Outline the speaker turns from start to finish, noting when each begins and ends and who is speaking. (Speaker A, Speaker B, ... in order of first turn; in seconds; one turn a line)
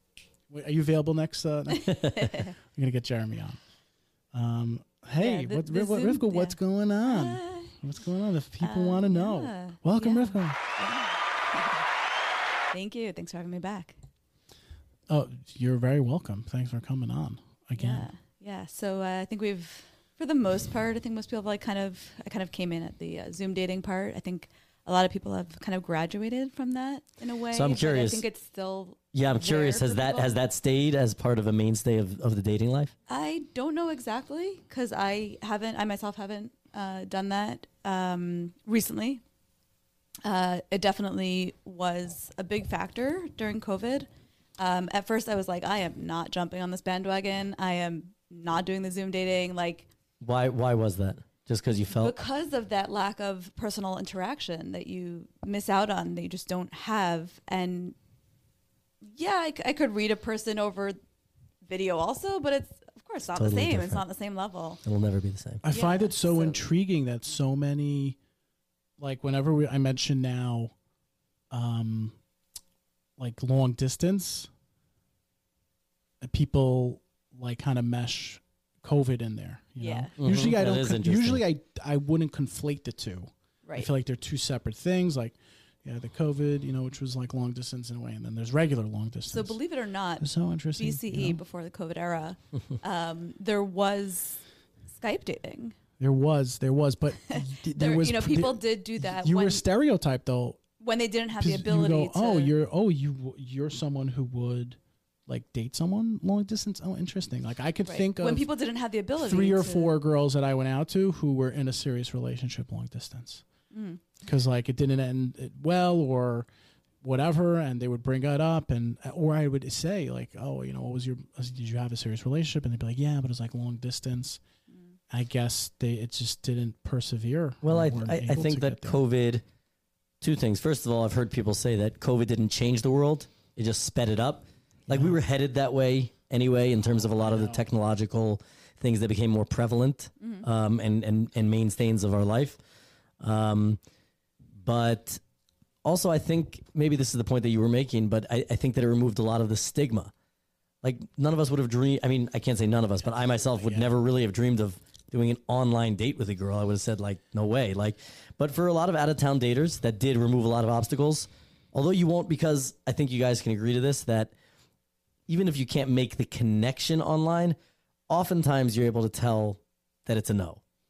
Speaker A: 0.5-2.0
Speaker B: 1.7-2.5
Speaker C: 1.9-2.2
Speaker A: 2.6-3.6
Speaker A: 4.3-10.6
Speaker B: 5.2-7.8
Speaker B: 8.6-11.8
Speaker B: 12.7-14.0
Speaker A: 15.1-18.1
Speaker B: 17.8-30.3
Speaker C: 27.5-28.2
Speaker C: 29.1-32.9
Speaker B: 33.1-39.2
Speaker B: 40.2-49.9
Speaker C: 50.2-52.1
Speaker B: 52.0-58.0
Speaker B: 59.0-61.0
Speaker B: 61.7-64.8
Speaker C: 63.4-64.0
Speaker C: 64.8-65.6
Speaker A: 65.6-68.2
Speaker B: 65.7-66.6
Speaker A: 69.0-70.7
Speaker A: 71.5-72.2
Speaker A: 73.2-74.5
Speaker A: 76.2-89.6
Speaker B: 79.8-80.1
Speaker C: 80.2-81.4
Speaker B: 89.3-95.8
Speaker A: 90.2-91.4
Speaker A: 96.0-100.6
Speaker B: 97.3-99.6
Speaker B: 100.8-102.5
Speaker A: 101.4-108.5
Speaker B: 107.9-109.9
Speaker A: 109.2-113.4
Speaker B: 113.7-114.0
Speaker A: 114.2-116.5
Speaker A: 117.0-124.4
Speaker A: 125.1-129.0
Speaker C: 127.6-129.4
Speaker C: 130.2-142.6
Speaker A: 134.9-135.2
Speaker A: 137.0-137.6
Speaker C: 143.2-143.8
Speaker C: 144.6-145.2
Speaker C: 145.8-150.1
Speaker C: 150.8-164.3
Speaker C: 165.3-167.6
Speaker C: 168.1-170.6